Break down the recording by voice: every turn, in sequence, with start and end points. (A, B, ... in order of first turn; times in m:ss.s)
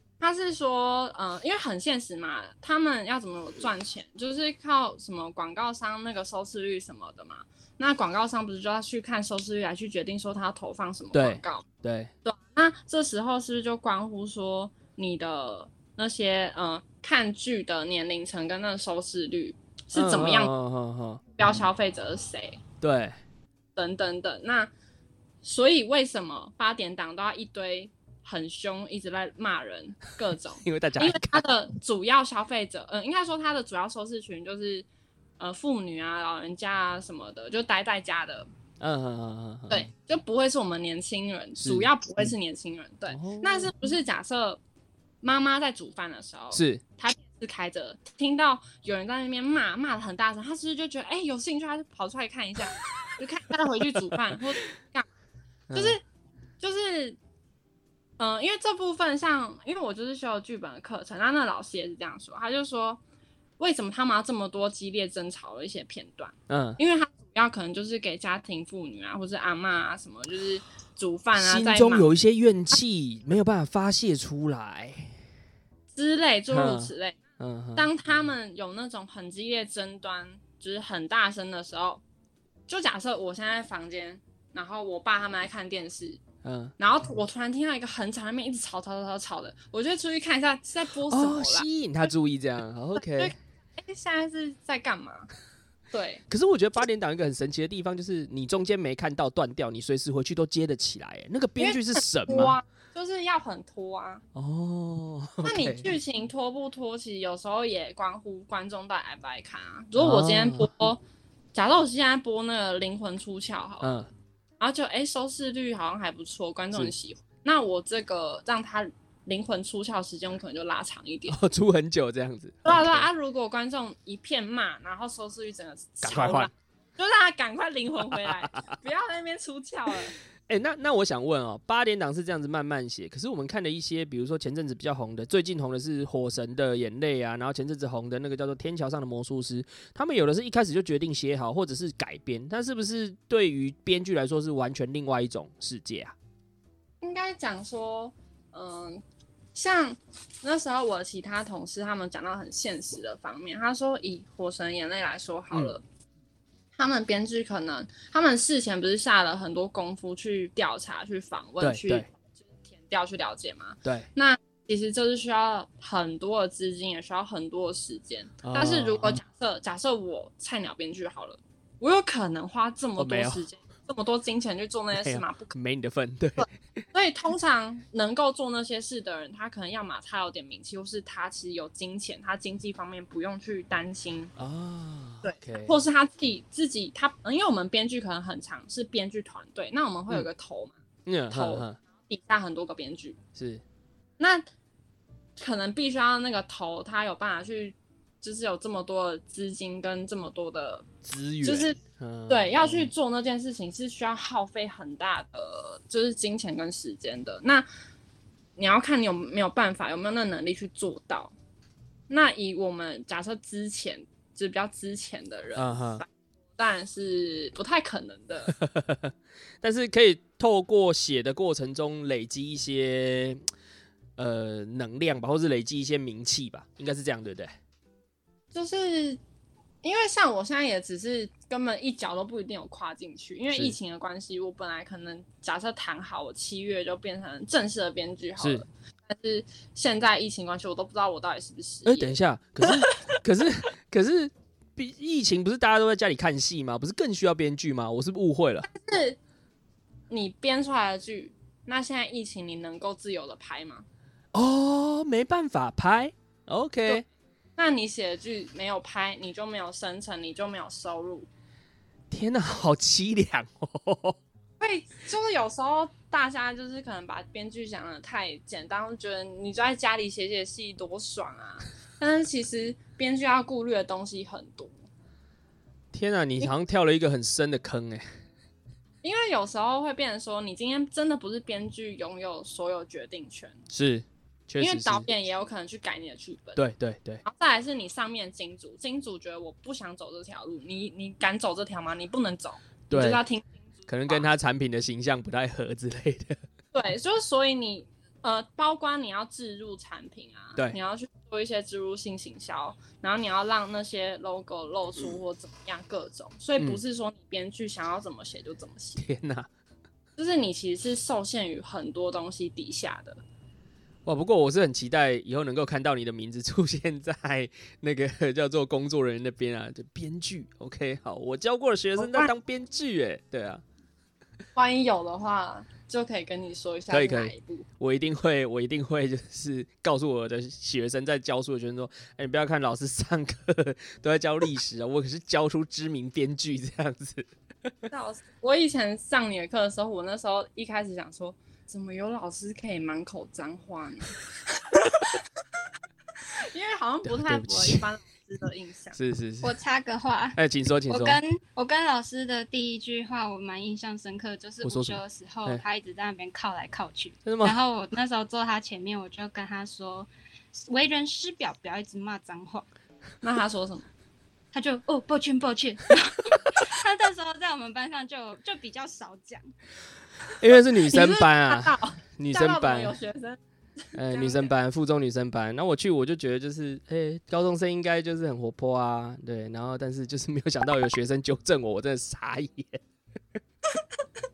0:00.2-0:11.6 A
0:11.1-0:12.1 B
0:12.2-0:20.5 A
0:20.0-0:21.2 B
0:21.4-0:22.6 A
0:22.8-0:23.2 B
0:23.8-0:24.7 A
0:25.4-0:34.9 A
0:30.6-0:31.4 B
0:35.4-0:38.5 A
0:38.8-0:39.9 B
0:39.7-0:44.6 A
0:41.6-0:42.3 B
0:43.1-0:43.7 B
0:45.2-0:55.1 A
0:46.5-0:46.8 B
0:55.7-0:56.0 B
0:55.7-0:56.0 A
0:56.6-0:57.2 A
0:58.2-1:03.0 A
1:03.6-1:12.1 A
1:06.5-1:06.8 B
1:11.4-1:15.2 B
1:15.9-1:17.2 A
1:16.5-1:17.9 B
1:17.8-1:22.0 A
1:22.7-1:26.2 A
1:26.4-1:26.8 B
1:26.8-1:32.1 A
1:31.1-1:33.4 B
1:33.0-1:35.3 A
1:35.9-1:36.2 A
1:36.3-1:42.6 B
1:41.6-1:44.2 A
1:44.4-1:45.9 B
1:45.4-1:51.0 A
1:50.0-1:50.8 B
1:51.5-1:53.9 A
1:53.8-1:54.1 B
1:54.6-2:01.4 A
2:01.3-2:03.1 B
2:02.6-2:10.2 A
2:06.0-2:06.5 B
2:10.5-2:26.2 B
2:27.0-2:29.0 A
2:29.5-2:35.8 A
2:35.5-2:35.8 B
2:36.8-2:55.5 A
2:41.6-2:42.1 B
2:48.4-2:49.2 B
2:53.0-2:53.4 B
2:55.0-2:56.5 B
2:56.4-3:04.3 A
3:04.4-3:05.8 B
3:05.2-3:10.8 A
3:11.1-3:11.8 B
3:11.3-3:13.2 A
3:13.4-3:13.6 B
3:14.2-3:14.5 A
3:15.4-3:20.9 A
3:21.0-3:22.9 B
3:21.4-3:21.8 A
3:22.3-3:27.7 A
3:28.6-3:31.4 A
3:32.1-3:36.0 A
3:35.6-3:36.0 B
3:36.6-3:38.5 A
3:38.5-3:43.4 B
3:44.2-3:47.6 B
3:48.5-3:49.2 A
3:49.8-4:03.2 A
3:58.4-3:58.6 B
4:01.8-4:08.7 B
4:08.7-4:09.2 A
4:10.1-4:13.9 A
4:14.3-4:17.0 B
4:17.6-4:21.3 A
4:22.1-4:24.2 B
4:24.6-4:34.8 A
4:35.9-4:38.2 B
4:39.0-4:43.6 A
4:43.7-4:45.1 B
4:44.6-4:46.6 A
4:46.6-4:47.2 B
4:47.2-4:54.3 A
4:52.9-4:53.2 B
4:53.9-4:56.4 B
4:56.7-5:09.0 A
5:09.0-5:09.5 B
5:10.2-5:13.2 A
5:14.0-5:23.6 B
5:22.0-5:22.3 A
5:24.6-5:27.7 A
5:26.9-5:37.7 B
5:37.9-5:44.2 A
5:46.4-5:49.0 A
5:47.1-5:47.9 B
5:49.0-5:49.6 B
5:49.4-6:02.7 C
5:50.4-5:51.2 B
5:54.6-5:55.6 B
5:57.2-5:57.6 B
6:03.2-6:03.9 A
6:04.5-6:09.5 C
6:10.4-6:13.0 B
6:10.8-6:13.4 A
6:13.9-6:14.5 A
6:14.0-6:22.8 B